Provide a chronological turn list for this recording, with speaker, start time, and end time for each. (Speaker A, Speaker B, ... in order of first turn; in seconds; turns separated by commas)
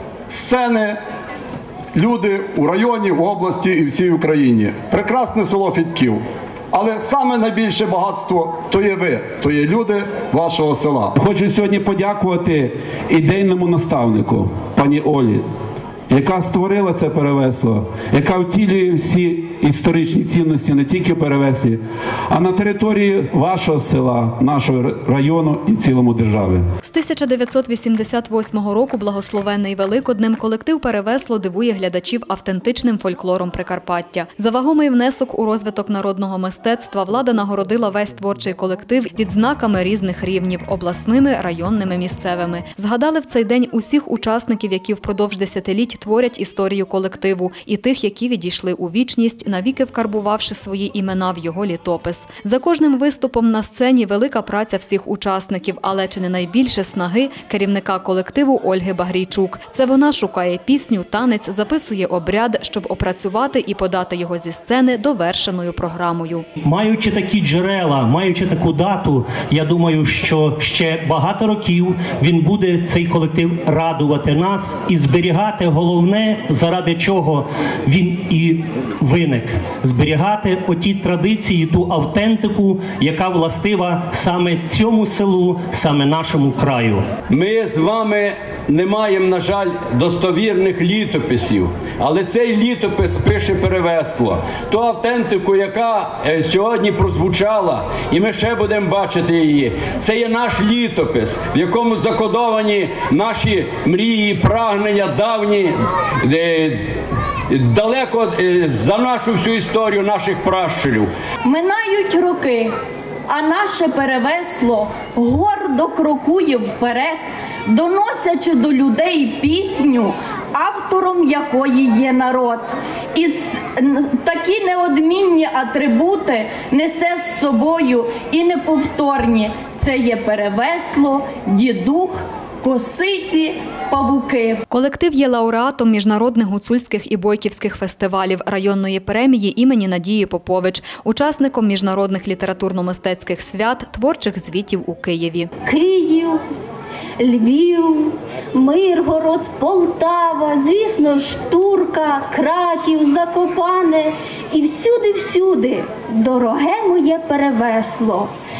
Speaker A: 0.3-1.0, Speaker A: 2.0-6.2, Speaker A: 6.7-11.1, Speaker B: 11.2-15.4, Speaker B: 16.1-26.6, Speaker C: 26.8-66.5, Speaker D: 66.6-87.1, Speaker E: 87.3-106.8, Speaker E: 107.5-111.1, Speaker F: 111.5-112.7, Speaker F: 113.3-134.6, Speaker C: 134.7-145.5, Speaker G: 145.7-146.4, Speaker G: 147.2-158.3